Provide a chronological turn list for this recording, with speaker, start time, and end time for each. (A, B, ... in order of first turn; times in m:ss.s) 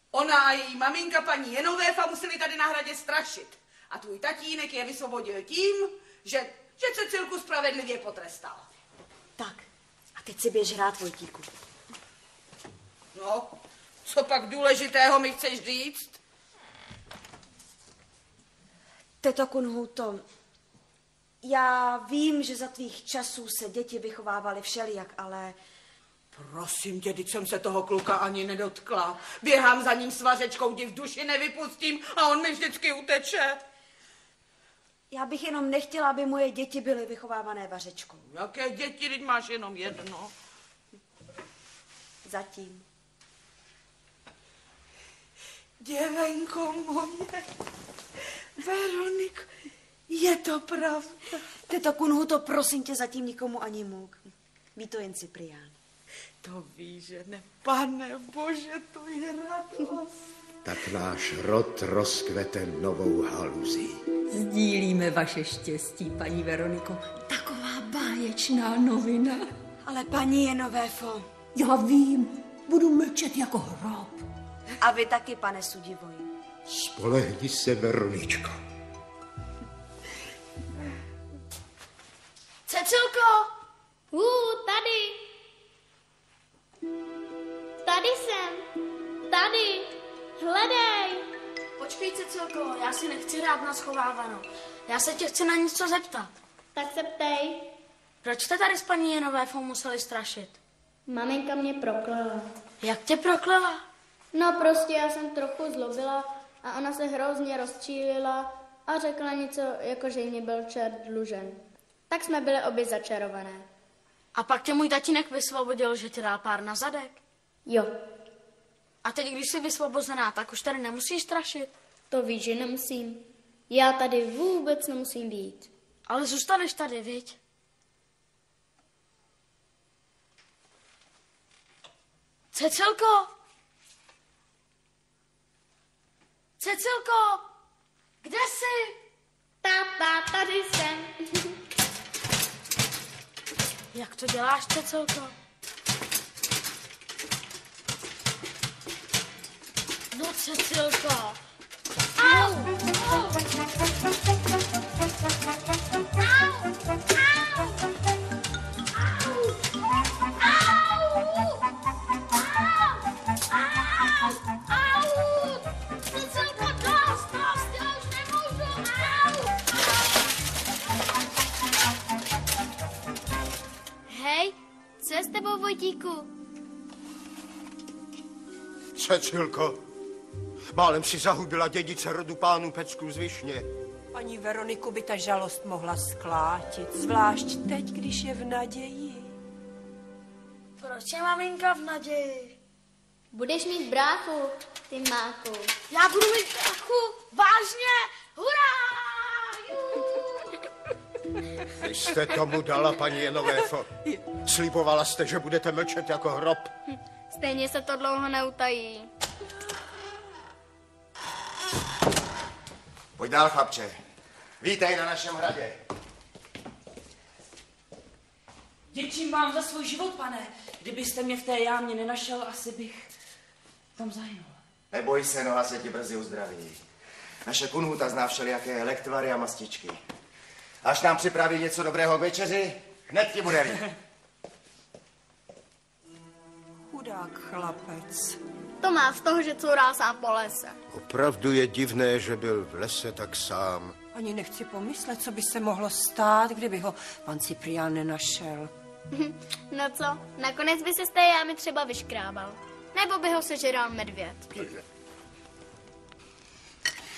0:00.1-0:08.7 A
0:09.4-0:11.5 B
0:13.1-0:16.2 A
0:19.2-0:20.2 B
0:21.4-0:25.6 B
0:26.3-0:33.6 A
0:35.1-0:38.2 B
0:38.3-0:40.3 A
0:42.2-0:42.9 B
0:45.8-0:47.4 A
0:48.6-0:49.5 A
0:50.1-0:51.2 A
0:51.6-0:55.8 B
0:56.4-1:00.0 A
1:00.6-1:04.0 C
1:04.3-1:09.5 D
1:09.8-1:11.3 B
1:11.6-1:14.2 D
1:14.8-1:16.3 B
1:16.7-1:18.6 C
1:22.7-1:23.5 E
1:24.1-1:25.3 F
1:27.8-1:28.7 F
1:29.3-1:31.3 F
1:31.8-1:36.3 E
1:36.7-1:37.7 F
1:38.2-1:40.6 E
1:41.1-1:42.5 F
1:42.8-1:43.8 E
1:44.3-1:53.7 F
1:54.4-1:57.2 E
1:57.7-1:57.9 F
1:59.0-2:01.7 E
2:02.1-2:05.7 F
2:06.1-2:07.4 E
2:12.5-2:13.3 E
2:16.6-2:17.4 E
2:18.2-2:19.0 E
2:19.6-2:21.5 F
2:23.9-2:25.3 E
2:30.1-2:31.4 E
2:32.2-2:33.4 E
2:36.2-2:36.6 E
2:37.2-2:37.7 E
2:38.9-2:39.6 E
2:40.4-2:41.7 E
2:42.4-2:49.8 E
2:54.1-2:56.3 F
2:59.0-2:59.8 G
3:00.7-3:03.7 G
3:04.1-3:09.3 H
3:10.8-3:12.6 E
3:13.3-3:15.7 F
3:15.9-3:20.7 E
3:21.8-3:26.7 G
3:27.3-3:29.1 F
3:33.2-3:34.0 I
3:34.6-3:35.8 I
3:38.9-3:43.1 J
3:44.0-3:44.6 J
3:44.9-3:46.8 I
3:47.5-3:50.0 I
3:50.8-3:53.8 I
3:56.9-3:58.4 H
3:58.8-4:00.8 F
4:00.9-4:04.0 G
4:04.1-4:08.7 H
4:09.1-4:14.7 F